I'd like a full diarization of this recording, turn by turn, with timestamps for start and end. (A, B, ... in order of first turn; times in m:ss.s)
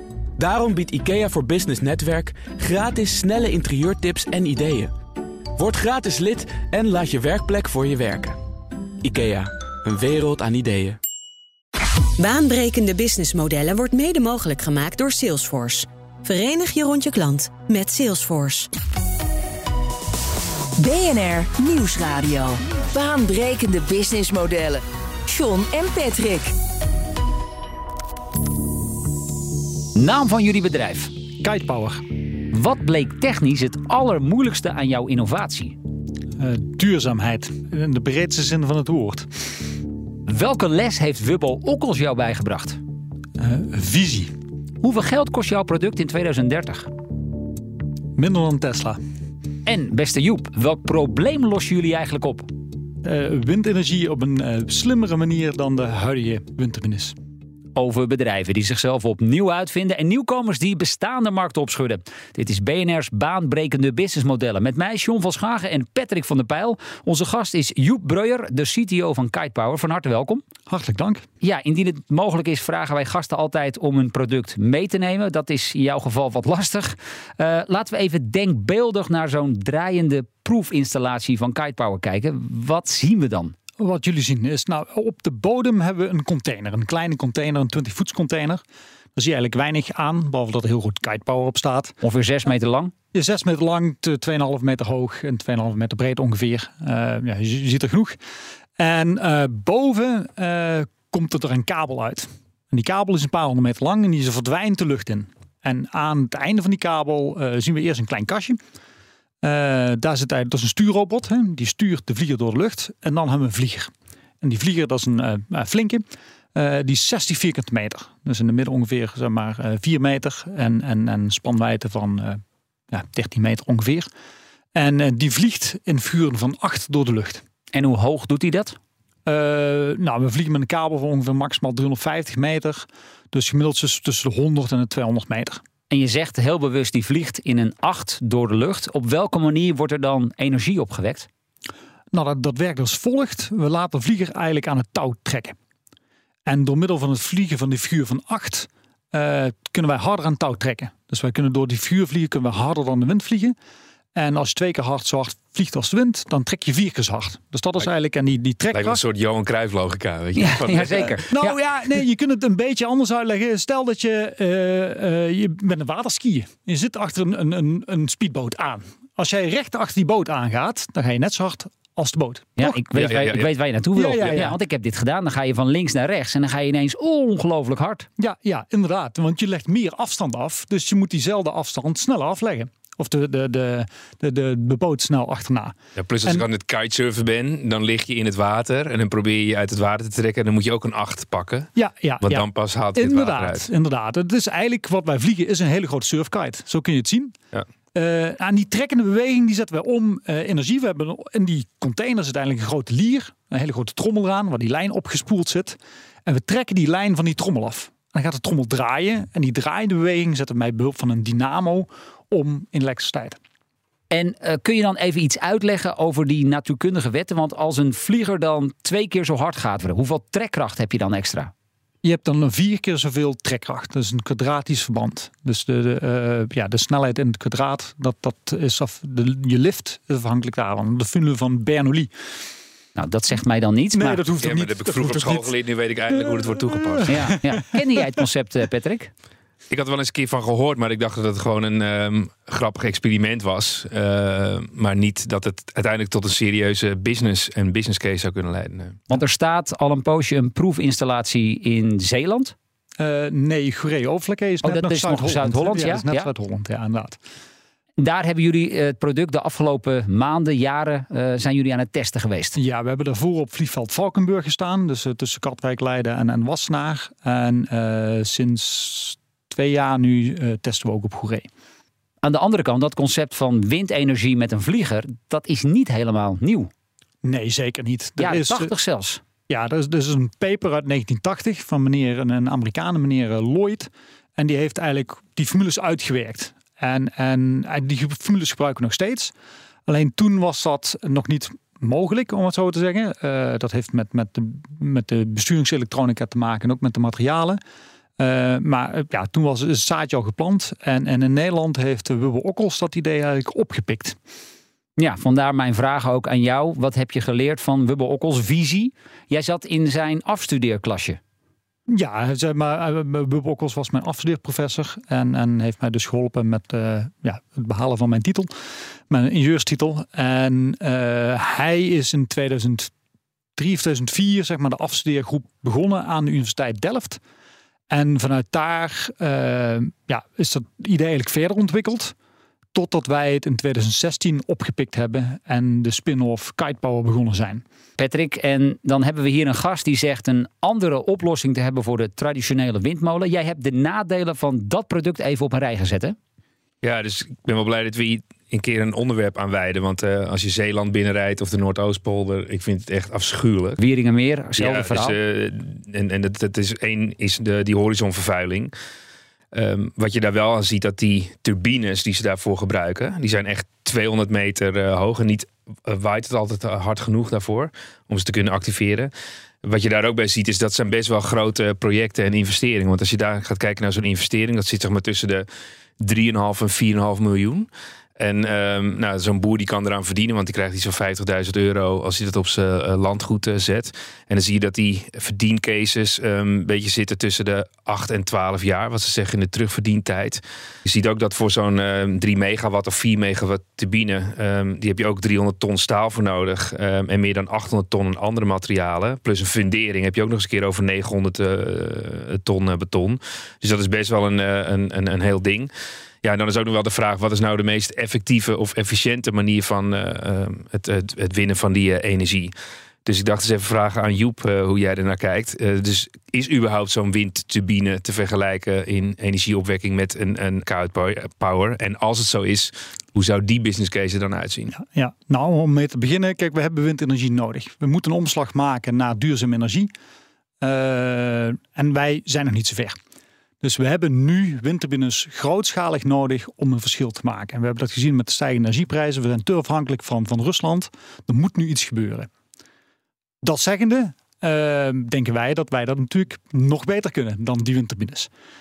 0:00.4-0:04.9 A
0:05.6-0:08.4 A
0:09.0-0:11.0 A
0:12.2-0:18.7 B
0:20.8-0:26.6 C
0:29.9-0:31.1 D
0:31.4-0:32.0 E
0:32.5-0:35.8 D
0:36.4-0:39.3 E
0:40.2-0:42.8 D
0:43.4-0:44.3 E
0:44.8-0:46.9 D
0:48.2-0:49.0 E
0:49.6-0:52.5 D
0:53.0-0:57.2 E
0:57.8-1:10.4 D
1:10.7-1:11.2 E
1:11.4-1:23.5 D
1:23.8-1:28.6 E
1:29.1-1:31.9 E
1:32.0-1:32.9 D
1:33.1-1:38.2 E
1:38.8-1:48.6 E
1:49.4-2:04.1 E
2:04.7-2:07.4 E
2:07.7-2:08.8 D
2:09.2-2:15.6 E
2:15.9-2:21.3 D
2:22.1-2:25.6 E
2:26.4-2:33.6 E
2:34.1-2:39.0 E
2:38.7-2:41.2 F
2:40.4-2:41.6 D
2:41.3-2:52.8 E
2:52.6-2:58.1 D
2:53.0-2:53.5 F
2:54.0-2:54.6 E
2:58.2-3:06.4 E
3:06.0-3:11.7 F
3:11.8-3:17.4 E
3:12.2-3:13.7 F
3:17.9-3:33.4 E
3:34.1-3:41.5 D
3:42.0-3:52.1 E
3:53.0-3:54.2 D
3:53.9-3:55.5 E
3:54.4-3:57.3 F
3:56.1-3:58.2 E
3:57.1-3:59.1 D
3:59.7-4:09.0 F
4:09.1-4:12.5 D
4:13.0-4:17.2 E
4:14.6-4:16.3 D
4:18.0-4:22.6 D
4:22.5-4:31.5 E
4:32.2-4:36.7 D
4:37.2-4:38.7 E
4:38.2-4:39.2 D
4:39.5-4:49.3 E
4:49.9-4:57.6 E
4:58.2-5:04.2 E
5:05.0-5:11.2 D
5:11.9-5:18.5 E
5:19.1-5:22.9 E
5:23.6-5:27.2 E
5:27.9-5:32.1 E
5:32.7-5:37.6 E
5:38.0-5:46.2 D
5:46.8-5:53.8 F
5:53.8-5:55.2 D
5:54.6-5:58.7 F
5:59.5-6:09.1 F
6:09.6-6:15.4 F
6:16.0-6:17.7 F
6:18.2-6:45.7 F
6:46.2-6:52.5 F
6:53.0-7:04.7 F
7:04.7-7:09.9 E
7:10.6-7:13.0 E
7:13.6-7:22.3 E
7:23.4-7:28.3 E